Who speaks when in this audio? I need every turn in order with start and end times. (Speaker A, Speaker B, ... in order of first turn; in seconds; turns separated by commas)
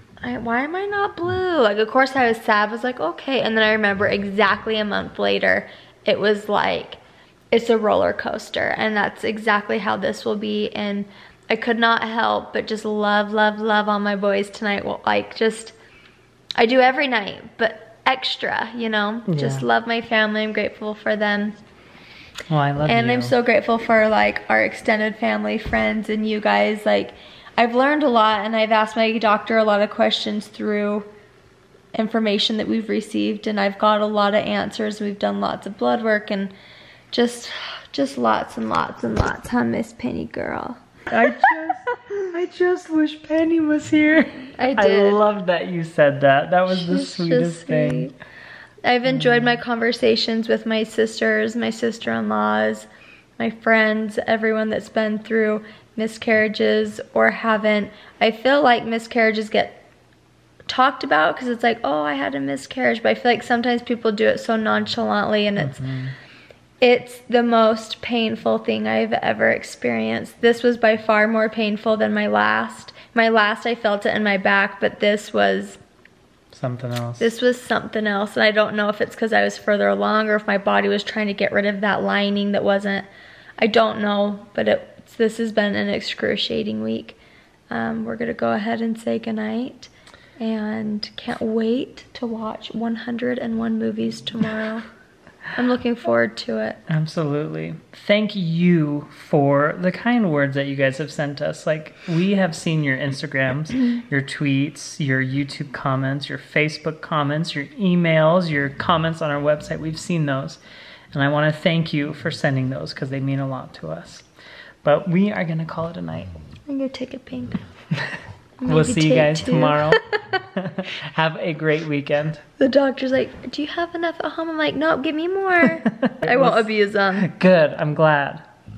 Speaker A: 0.2-7.0, Speaker A: 7.5-15.8, Speaker A: 16.6-21.6, Speaker B: 19.3-19.7, Speaker B: 22.5-23.3, Speaker A: 22.9-31.1, Speaker A: 31.9-36.5, Speaker A: 37.1-40.8, Speaker B: 41.1-48.1, Speaker A: 44.6-45.2, Speaker A: 46.7-48.1, Speaker A: 48.8-52.9, Speaker B: 49.1-49.5, Speaker A: 53.4-59.8, Speaker A: 60.7-65.8, Speaker B: 65.6-66.1, Speaker A: 66.8-75.8, Speaker B: 76.5-77.3, Speaker A: 77.2-83.1, Speaker A: 83.6-87.2, Speaker A: 87.7-94.9, Speaker A: 95.5-96.8, Speaker B: 96.9-110.6, Speaker B: 111.1-114.3, Speaker B: 114.8-116.3, Speaker A: 116.7-117.6, Speaker B: 118.0-120.0, Speaker A: 118.6-120.4, Speaker B: 120.5-122.4, Speaker A: 122.6-127.3, Speaker B: 125.9-128.4